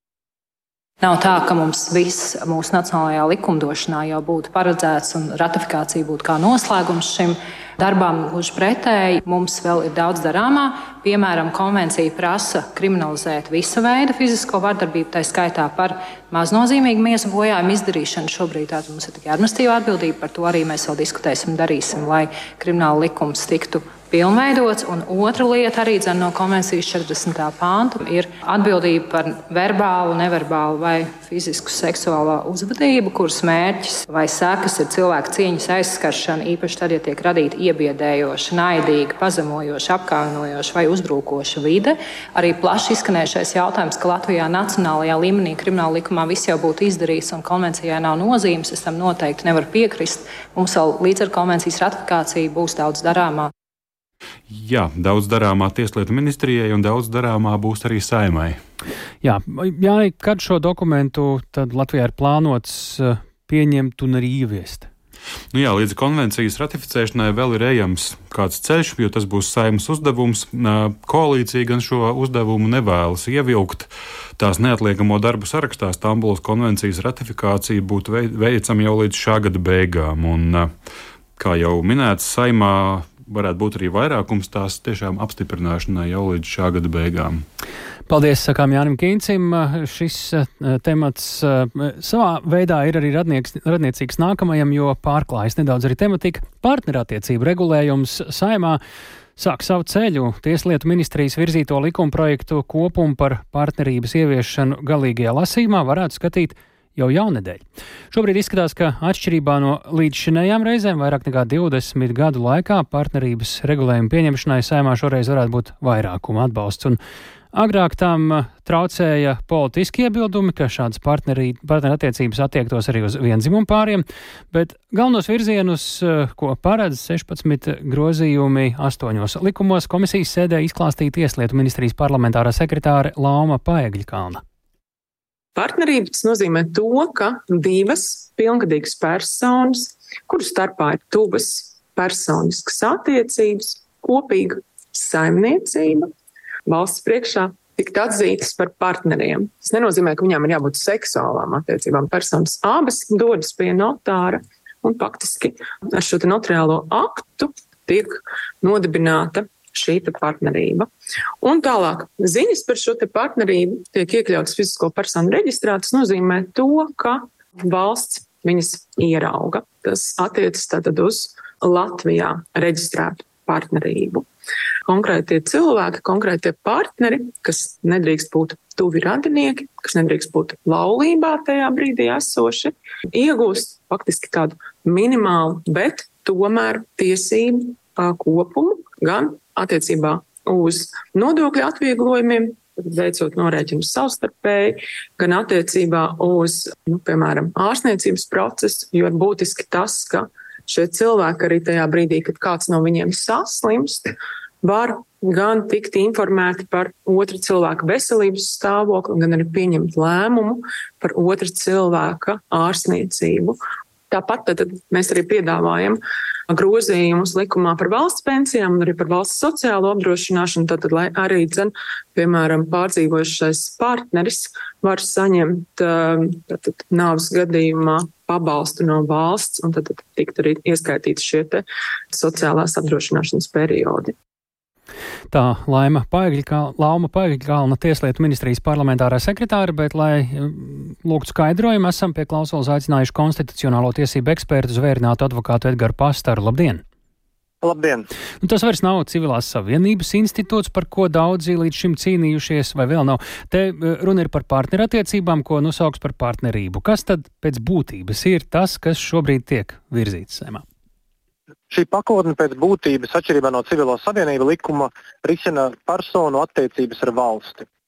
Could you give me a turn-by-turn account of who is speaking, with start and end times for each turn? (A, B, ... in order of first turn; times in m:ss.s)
0:01.0-0:53.5 A
0:54.5-0:58.6 B
0:59.2-1:04.9 C
1:05.5-1:20.7 B
1:21.4-1:27.5 B
1:28.1-1:38.8 C
1:39.4-1:57.0 C
1:57.5-2:14.4 C
2:15.5-2:26.1 D
2:26.7-2:40.9 D
2:41.4-2:54.3 D
2:54.9-3:24.1 D
3:24.6-3:33.6 D
3:34.1-3:36.0 D
3:36.5-3:54.2 D
3:55.3-4:06.8 C
4:07.6-4:08.0 E
4:08.4-4:20.6 C
4:21.7-4:27.6 E